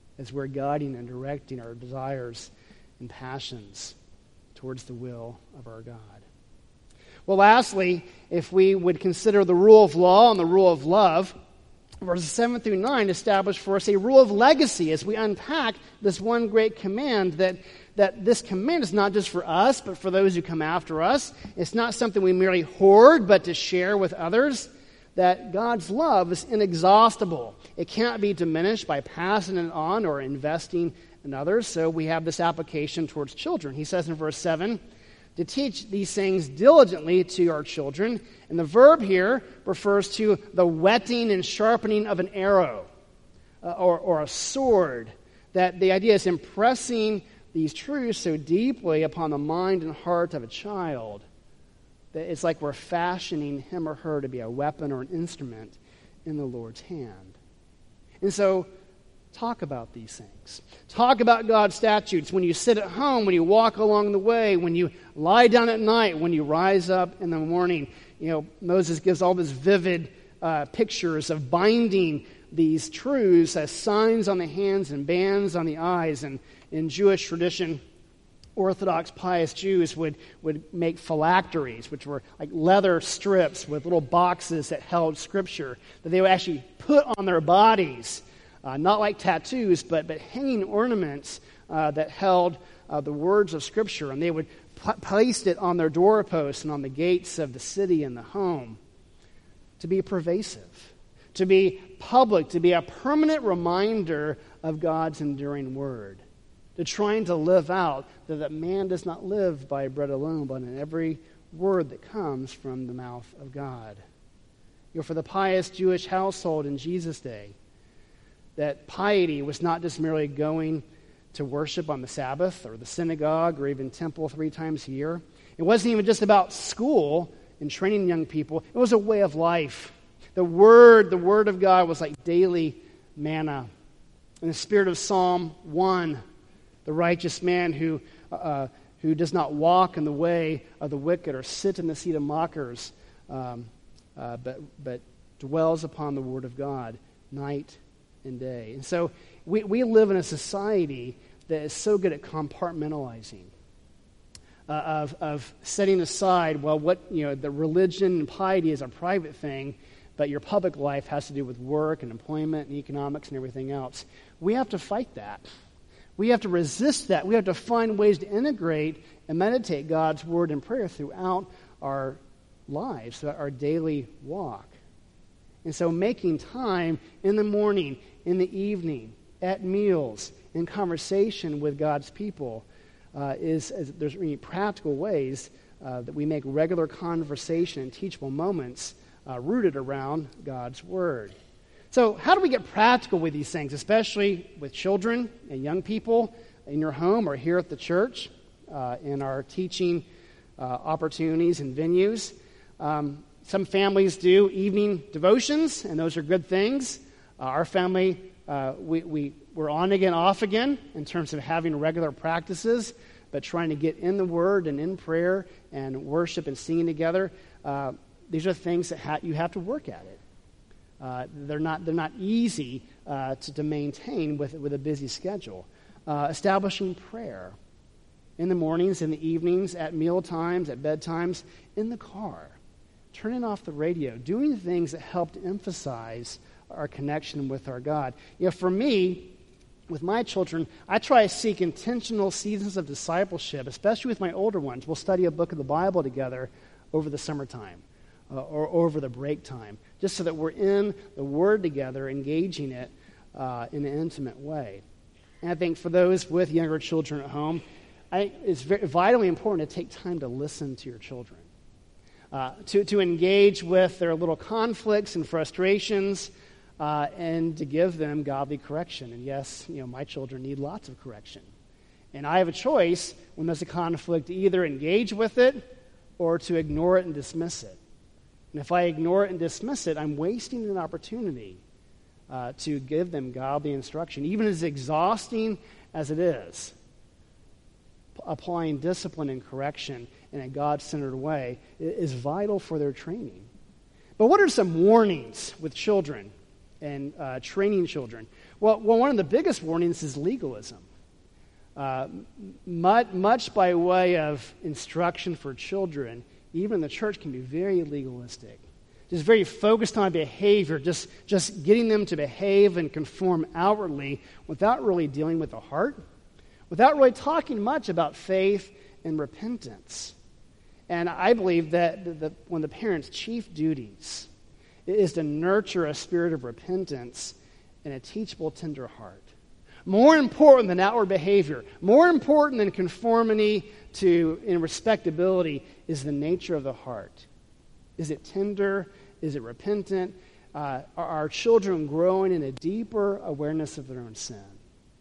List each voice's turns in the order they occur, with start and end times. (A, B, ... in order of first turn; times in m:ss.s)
0:00.2-0:04.0 A
0:04.6-0:06.2 A
0:07.3-0:11.3 A
0:12.0-0:34.8 A
0:35.4-0:42.9 A
0:43.6-0:51.2 A
0:52.1-0:57.4 A
0:58.2-0:58.7 A
0:59.3-1:17.8 A
1:18.6-1:38.8 A
1:39.8-1:46.2 A
1:46.8-1:54.0 A
1:54.9-1:57.6 A
1:58.6-2:13.7 A
2:14.4-2:16.2 A
2:16.8-2:33.5 A
2:34.7-2:45.4 A
2:46.2-2:54.8 A
2:55.6-3:11.4 A
3:11.9-3:20.0 A
3:20.6-3:40.2 A
3:41.0-3:47.6 A
3:48.4-3:52.6 A
3:53.1-3:59.3 A
3:59.9-4:14.8 A
4:15.4-4:21.5 A
4:22.3-4:31.5 A
4:32.1-4:35.6 A
4:36.2-4:37.8 A
4:38.5-4:41.6 A
4:42.3-4:46.7 A
4:48.2-4:53.5 A
4:54.2-5:00.8 A
5:01.8-5:16.0 A
5:16.7-5:20.2 A
5:20.9-5:24.3 A
5:24.9-5:29.3 A
5:29.9-5:37.3 A
5:38.0-5:44.6 A